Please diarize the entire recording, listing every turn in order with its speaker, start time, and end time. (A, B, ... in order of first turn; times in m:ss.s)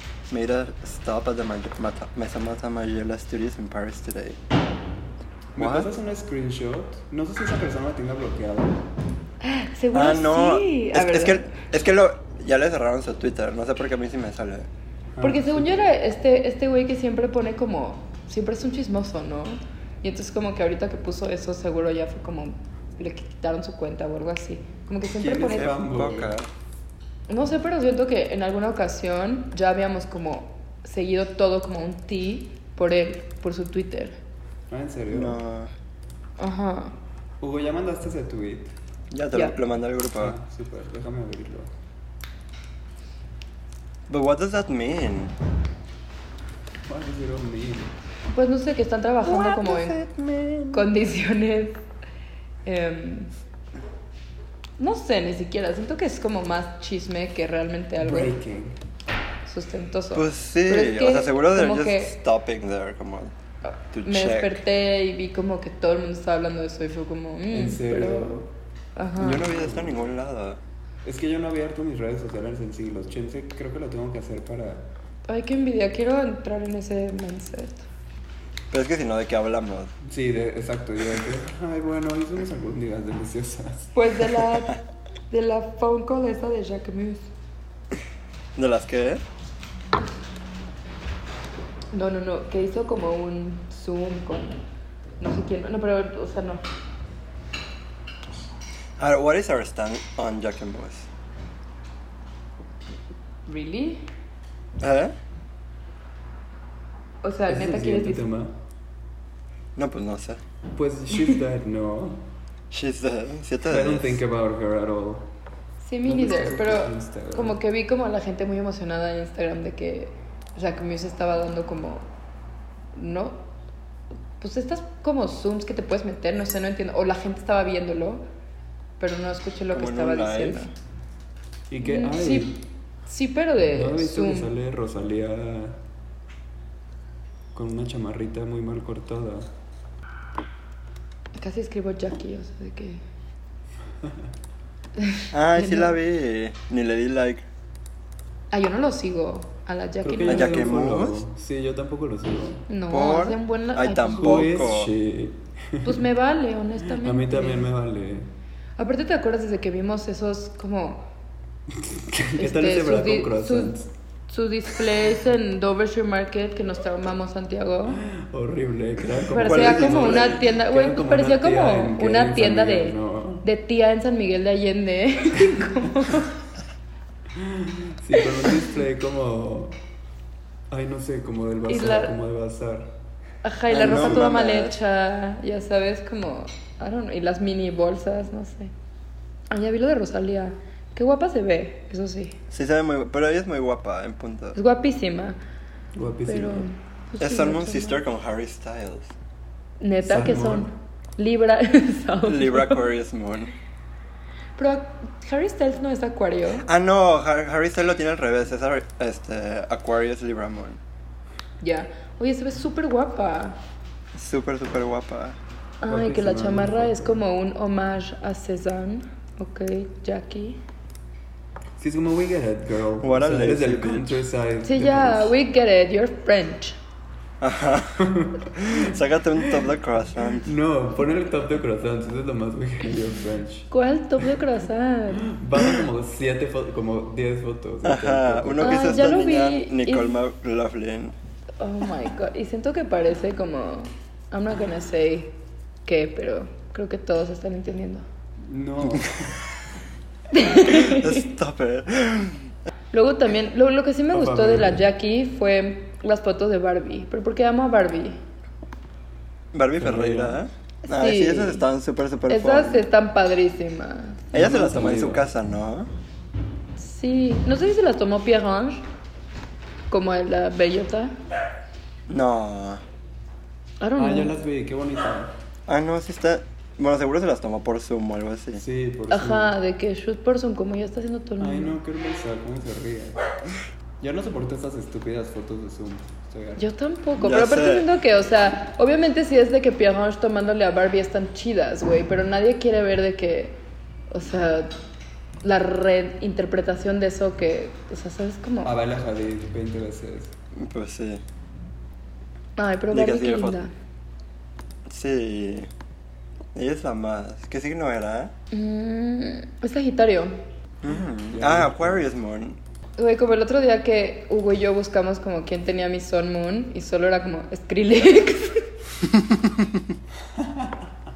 0:00.3-0:04.4 A
0:05.6-0:08.8 B
0:05.6-0:05.9 A
0:09.4-0:11.5 C
0:09.9-0:14.7 A
0:15.2-0:15.8 B
0:15.2-0:25.8 C
0:25.2-0:26.4 B
0:25.2-0:26.5 A
0:27.3-0:34.2 C
0:34.7-0:35.4 B
0:35.1-0:35.7 A
0:36.4-0:37.0 C
0:37.4-0:38.7 B
0:39.1-0:40.4 A
0:40.2-0:41.7 B
0:44.1-0:45.3 A
0:46.9-0:47.9 B
0:48.3-0:50.0 C
0:49.2-0:50.9 A
0:50.7-0:51.8 C
0:52.6-0:53.3 C
0:54.8-0:58.4 C
0:58.0-0:58.8 B
0:59.5-1:02.2 C
1:00.1-1:03.3 A
1:03.9-1:04.6 A
1:04.0-1:08.4 C
1:07.5-1:08.5 B
1:09.0-1:09.4 C
1:09.2-1:10.6 A
1:09.3-1:10.1 B
1:11.0-1:14.9 B
1:15.3-1:17.8 C
1:18.7-1:19.9 A
1:20.0-1:23.9 B
1:23.9-1:24.8 C
1:25.3-1:27.3 C
1:28.6-1:29.2 A
1:31.9-1:34.6 C
1:35.2-1:36.6 C
1:39.0-1:41.1 A
1:43.5-1:44.1 C
1:44.8-1:45.1 A
1:47.2-1:48.2 C
1:47.5-1:48.5 B
1:49.8-1:50.4 A
1:50.7-1:52.3 B
1:52.7-1:54.2 A
1:53.7-1:55.3 B
1:55.8-2:02.1 C
1:56.0-1:57.6 B
2:03.0-2:03.4 C
2:04.4-2:08.2 C
2:09.0-2:10.7 C
2:09.7-2:10.7 A
2:11.7-2:12.6 B
2:11.8-2:14.5 C
2:13.7-2:15.8 B
2:17.5-2:19.5 B
2:21.4-2:23.0 C
2:25.0-2:26.0 C
2:25.3-2:27.5 A
2:28.5-2:30.8 C
2:30.0-2:32.7 B
2:30.3-2:31.2 A
2:32.7-2:34.7 C
2:32.9-2:34.9 A
2:34.2-2:36.0 B
2:35.8-2:37.7 C
2:37.0-2:38.3 B
2:38.8-2:41.1 C
2:41.8-2:43.9 B
2:42.4-2:43.7 C
2:44.3-2:48.0 C
2:48.0-2:53.4 B
2:49.3-2:56.4 C
2:49.4-2:50.4 A
2:57.3-2:59.8 B
3:00.7-3:02.9 B
3:01.7-3:02.1 C
3:03.4-3:08.7 C
3:03.7-3:04.7 A
3:09.5-3:12.4 C
3:12.5-3:14.6 A
3:14.6-3:15.4 C
3:16.0-3:16.7 B
3:16.3-3:18.0 C
3:17.2-3:19.1 A
3:19.8-3:22.8 C
3:20.0-3:20.7 B
3:22.2-3:23.6 A
3:24.6-3:26.6 C
3:26.6-3:30.8 A
3:31.6-3:33.6 C
3:34.2-3:35.4 A
3:35.8-3:40.6 C
3:35.8-3:37.2 B
3:41.8-3:45.3 B
3:43.0-3:44.2 A
3:44.7-3:46.8 C
3:47.4-3:50.5 A
3:48.0-3:48.5 B
3:50.4-3:53.7 B
3:53.7-3:55.3 C
3:55.2-3:59.1 B
3:57.8-4:01.2 A
3:58.6-4:00.2 C
4:01.6-4:08.0 C
4:08.4-4:09.4 B
4:10.3-4:11.3 C
4:10.6-4:12.5 A
4:12.9-4:18.2 C
4:14.1-4:14.8 B
4:19.5-4:22.9 A
4:19.8-4:20.4 B
4:20.8-4:21.7 C
4:22.3-4:24.3 C
4:24.3-4:25.3 B
4:24.3-4:25.9 A
4:26.8-4:28.8 C
4:29.9-4:31.2 C
4:32.1-4:32.8 A
4:33.8-4:34.3 C
4:34.0-4:35.4 B
4:35.7-4:38.6 A
4:38.6-4:39.5 B
4:39.1-4:41.8 C
4:41.4-4:46.6 B
4:46.6-4:54.7 C
4:47.2-4:47.9 A
4:55.4-4:58.8 C
4:58.6-5:00.3 B
5:00.5-5:01.2 A
5:02.6-5:03.7 C
5:02.9-5:03.6 A
5:04.9-5:05.7 A
5:06.6-5:08.3 A
5:08.5-5:10.4 C
5:10.8-5:12.6 A
5:11.3-5:12.1 B
5:13.0-5:18.7 C
5:20.4-5:20.7 B